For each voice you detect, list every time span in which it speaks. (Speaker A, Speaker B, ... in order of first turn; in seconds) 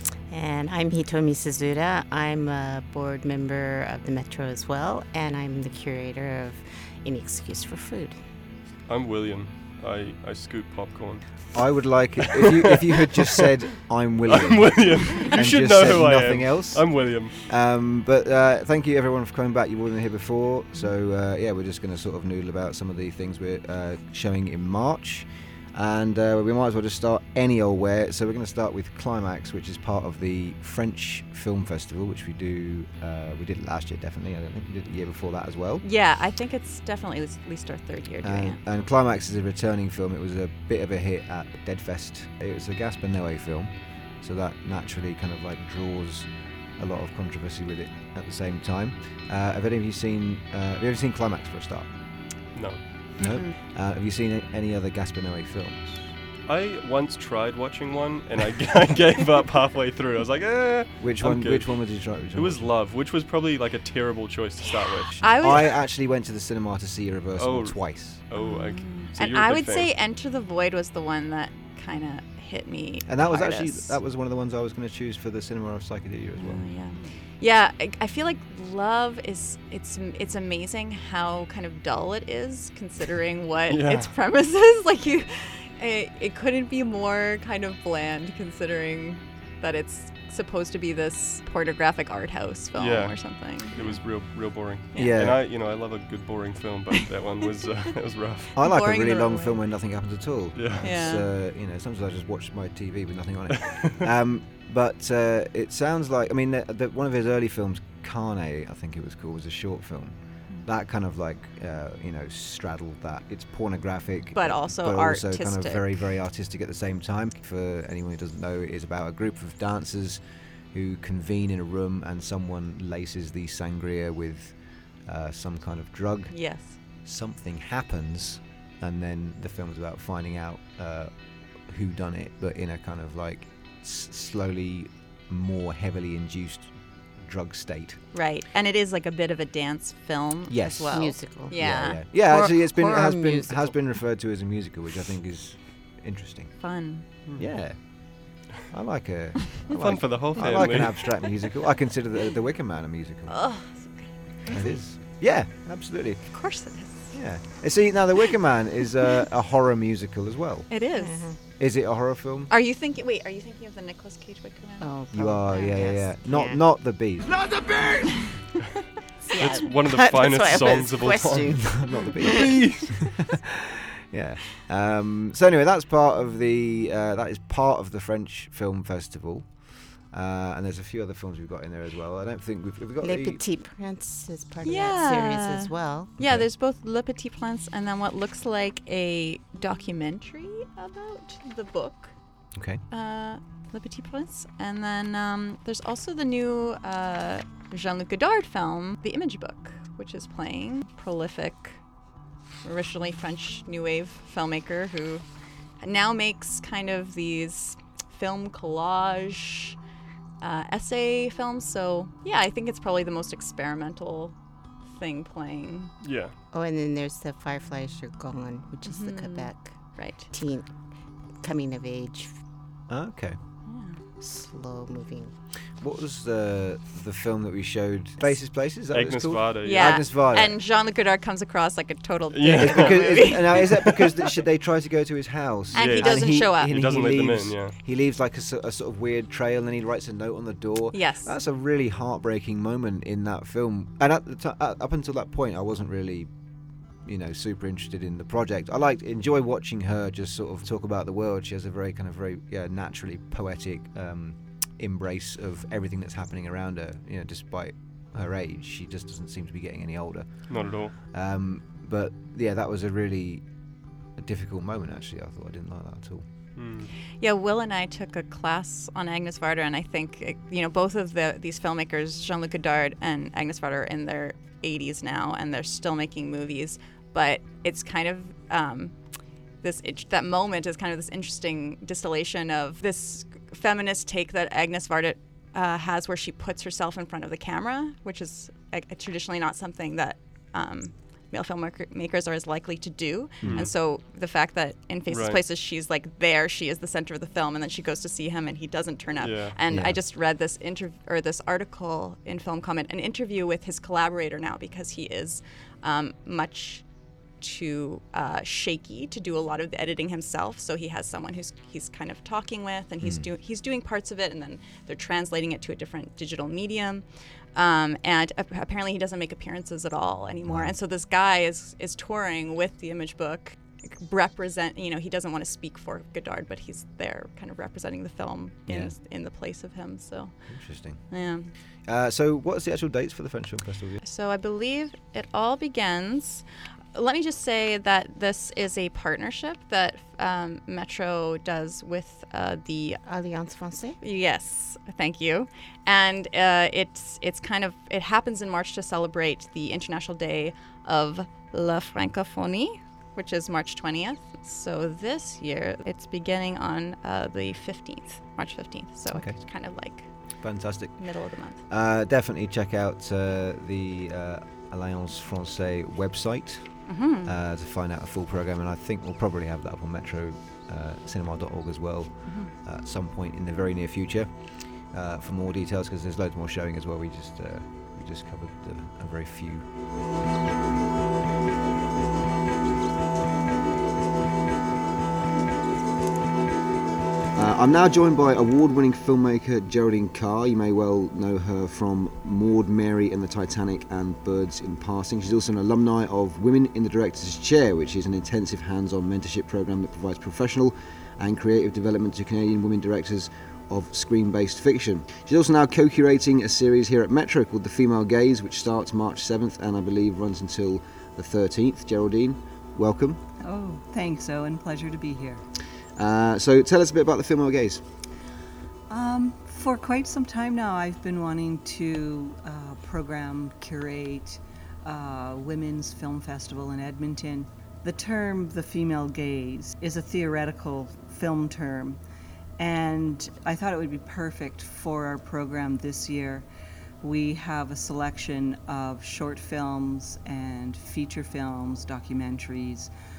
Speaker A: 0.3-8.2, 140.8-143.9, 154.5-154.8, 160.9-161.4, 164.8-166.6, 169.2-172.5, 183.0-186.1, 216.5-220.8, 221.4-222.4, 224.2-225.3, 343.0-344.0
Speaker B: 8.8-12.4, 14.3-17.4, 52.5-53.0, 56.4-65.2, 67.3-69.9, 83.7-84.1, 92.7-98.5, 100.5-100.9, 149.7-151.3, 169.4-173.0, 216.0-216.4, 228.9-230.1, 232.3-234.1, 235.7-237.8, 260.5-260.9, 266.5-266.9, 293.4-293.7, 295.1-295.4, 299.2-299.6
Speaker C: 11.5-35.8, 38.2-51.9, 53.2-56.1, 61.0-62.7, 65.2-68.2, 73.0-77.1, 95.0-95.4, 98.5-138.0, 140.5-146.6, 147.4-153.4, 154.5-160.8, 161.6-162.5, 165.1-167.6, 171.4-173.2, 174.0-183.4, 186.2-186.5, 192.5-192.8, 222.9-223.4, 225.8-230.6, 232.6-246.3, 247.0-263.4, 264.1-266.2, 299.7-300.0, 313.0-313.3, 320.4-320.7, 328.7-328.9, 330.4-331.2, 331.8-334.0, 359.1-359.7, 360.4-379.8, 387.3-413.2, 415.9-417.8
Speaker D: 35.8-38.6, 65.0-65.7, 68.3-74.0, 76.3-94.0, 94.9-95.2, 98.6-99.6, 100.8-101.3, 114.3-116.0, 126.3-126.8, 138.1-142.0, 146.6-147.1, 153.3-154.6, 156.3-157.4, 160.7-161.4, 162.5-164.9, 169.3-169.6, 184.6-192.2, 192.9-201.9, 202.6-205.2, 205.8-209.8, 210.4-215.9, 218.8-220.3, 223.7-224.0, 229.6-233.9, 235.7-236.7, 240.9-241.3, 267.2-331.5, 334.0-343.0, 344.0-361.6, 366.9-367.3, 372.2-372.5
Speaker E: 413.4-415.4, 418.9-432.0, 432.6-436.5, 437.0-442.9